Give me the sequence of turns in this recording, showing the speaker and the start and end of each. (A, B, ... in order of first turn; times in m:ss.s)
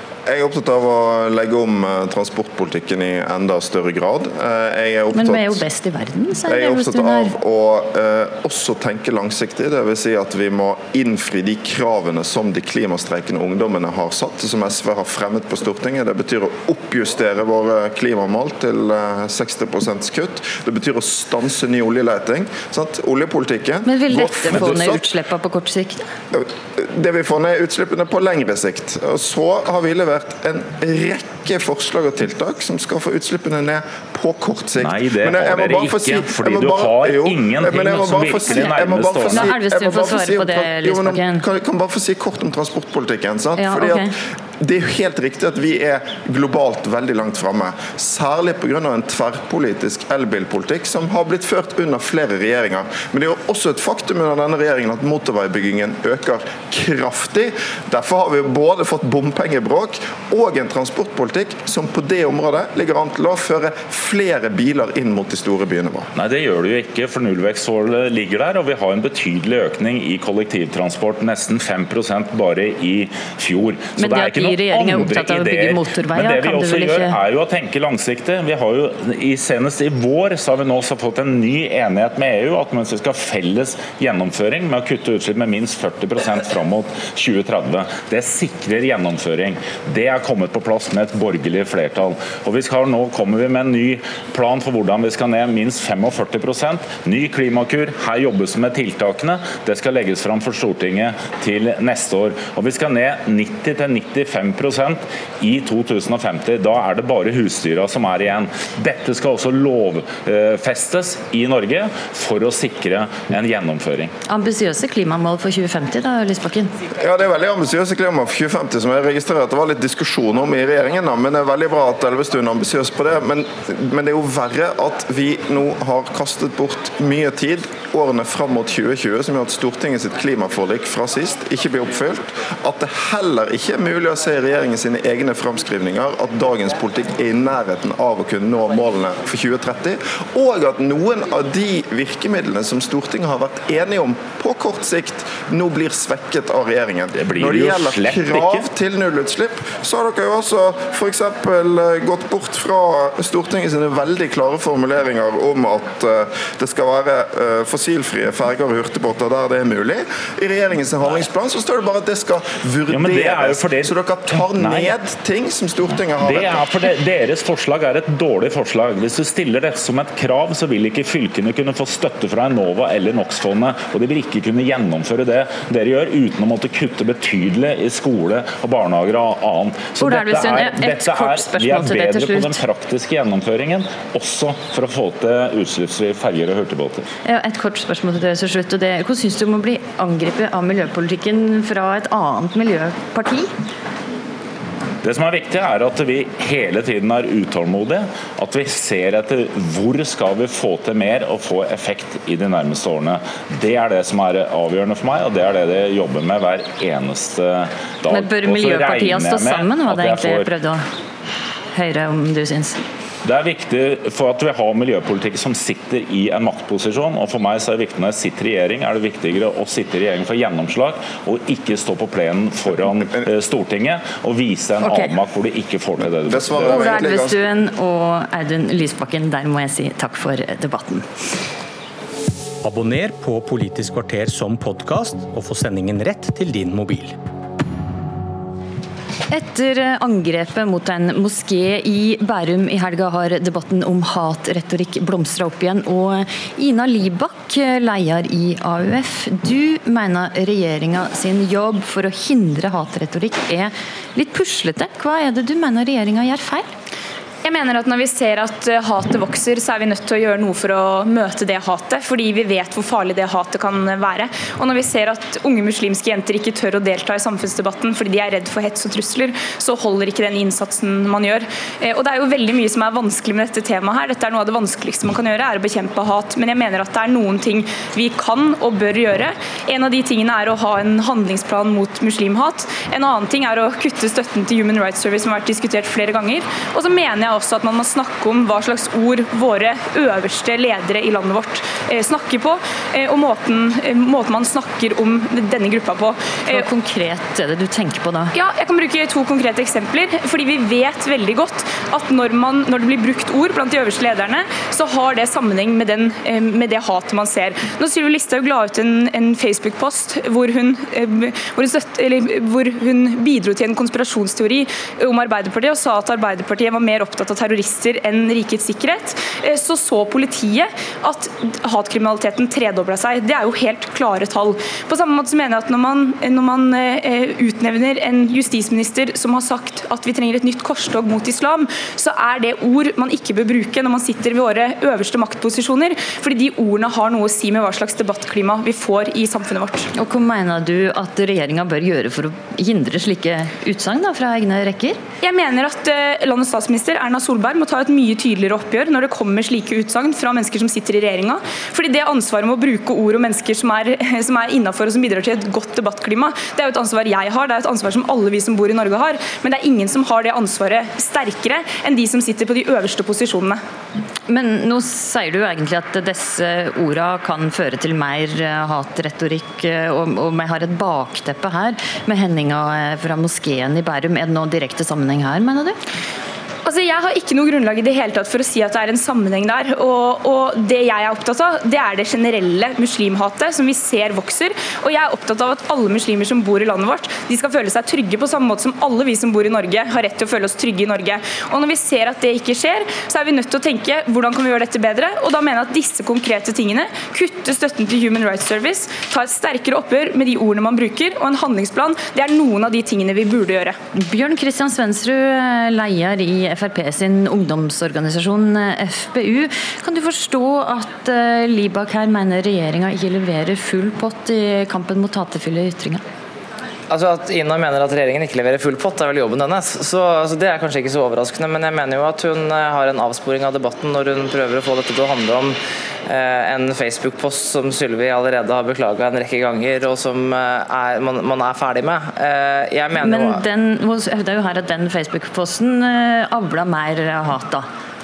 0:00.2-0:05.6 A
0:05.1-0:07.3 B
0:06.5-0:25.0 A
0:23.8-0:26.1 B
0:26.3-0:44.1 A
0:34.8-0:39.5 C
0:39.2-0:41.4 B
0:43.6-0:44.1 B
0:44.6-1:06.1 A
1:06.1-1:54.1 C
1:14.0-1:17.2 B
1:54.3-1:56.7 B
1:57.0-2:46.6 A
2:27.1-2:28.7 C
2:42.9-2:45.0 C
2:46.1-3:07.1 C
3:00.0-3:02.6 B
3:07.2-3:13.5 B
3:15.0-3:30.5 C
3:28.1-3:30.8 B
3:31.7-3:32.8 B
3:33.2-3:46.9 C
3:44.8-3:45.1 B
3:46.2-3:47.4 A
3:46.6-3:51.0 B
3:52.7-3:57.1 D
3:59.3-4:16.7 B
4:17.4-4:56.7 E
4:56.5-4:58.3 B
4:58.3-5:39.9 E
5:40.0-5:45.0 B
5:45.2-6:03.6 E
6:04.3-6:15.8 B
6:16.6-6:43.8 E
6:44.0-6:56.0 B
6:56.9-7:13.4 F
7:13.0-7:17.7 B